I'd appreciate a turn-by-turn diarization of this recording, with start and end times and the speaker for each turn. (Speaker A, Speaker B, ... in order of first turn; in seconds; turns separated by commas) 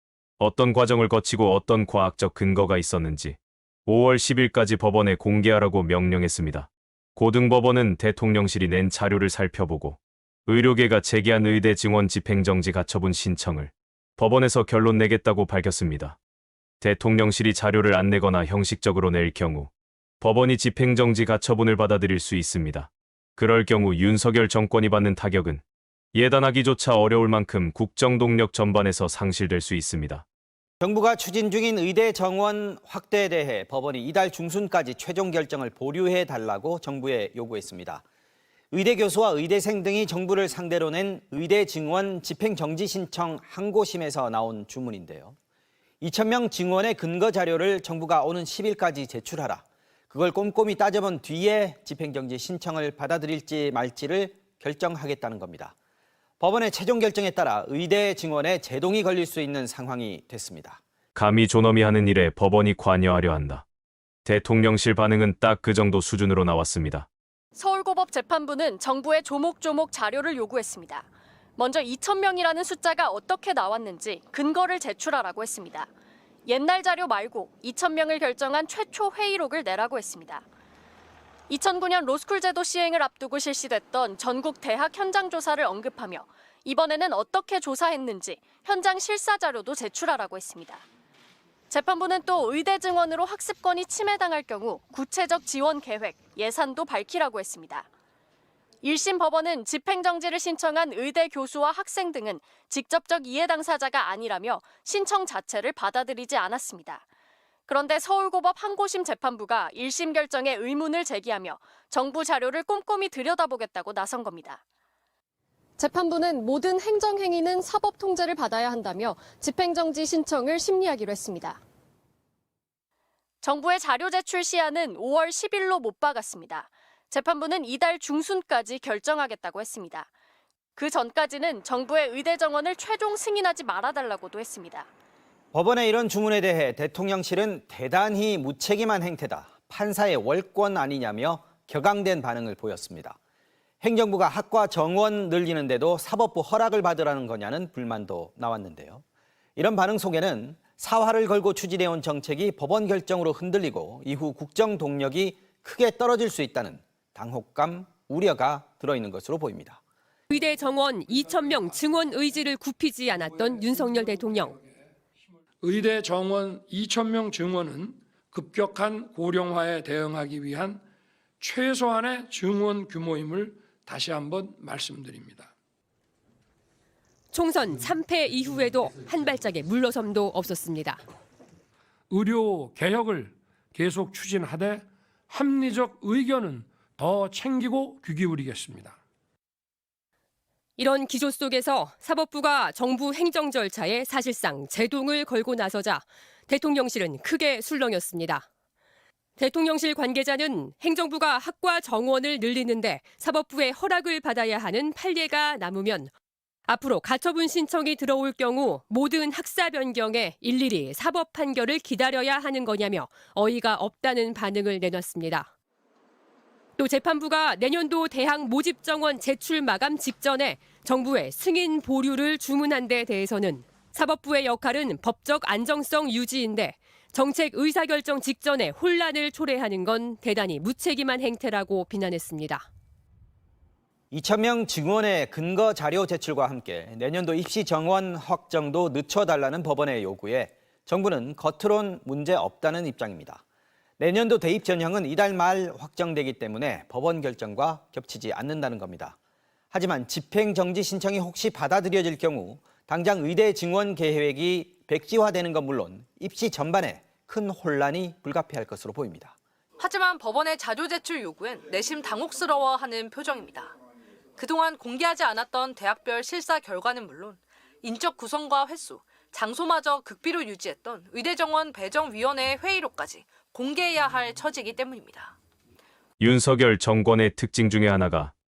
Speaker A: 0.4-16.2, Speaker A: 16.8-25.6, Speaker A: 26.1-30.2, Speaker B: 30.8-38.0, Speaker B: 38.7-45.3, Speaker B: 46.0-55.7, Speaker B: 56.4-60.8, Speaker A: 61.1-63.6, Speaker A: 64.2-67.1, Speaker C: 67.5-75.9, Speaker C: 76.5-80.4, Speaker C: 81.5-90.8, Speaker C: 91.7-97.9, Speaker C: 98.8-107.0, Speaker C: 107.7-114.6, Speaker C: 115.8-121.6, Speaker C: 123.4-130.1, Speaker C: 130.8-134.9, Speaker B: 135.5-143.2, Speaker B: 143.8-149.0, Speaker B: 149.6-159.8, Speaker D: 160.3-164.6, Speaker E: 161.2-162.1, Speaker E: 163.1-164.8, Speaker E: 165.6-170.8, Speaker E: 171.4-175.5, Speaker D: 177.3-181.0, Speaker E: 182.1-189.0, Speaker D: 190.8-198.4, Speaker D: 199.4-206.1, Speaker D: 206.7-215.5, Speaker D: 216.8-232.6, Speaker B: 234.1-243.4, Speaker B: 244.0-249.2, Speaker B: 249.7-259.3, Speaker F: 259.8-263.8, Speaker F: 264.4-275.4, Speaker A: 276.2-278.3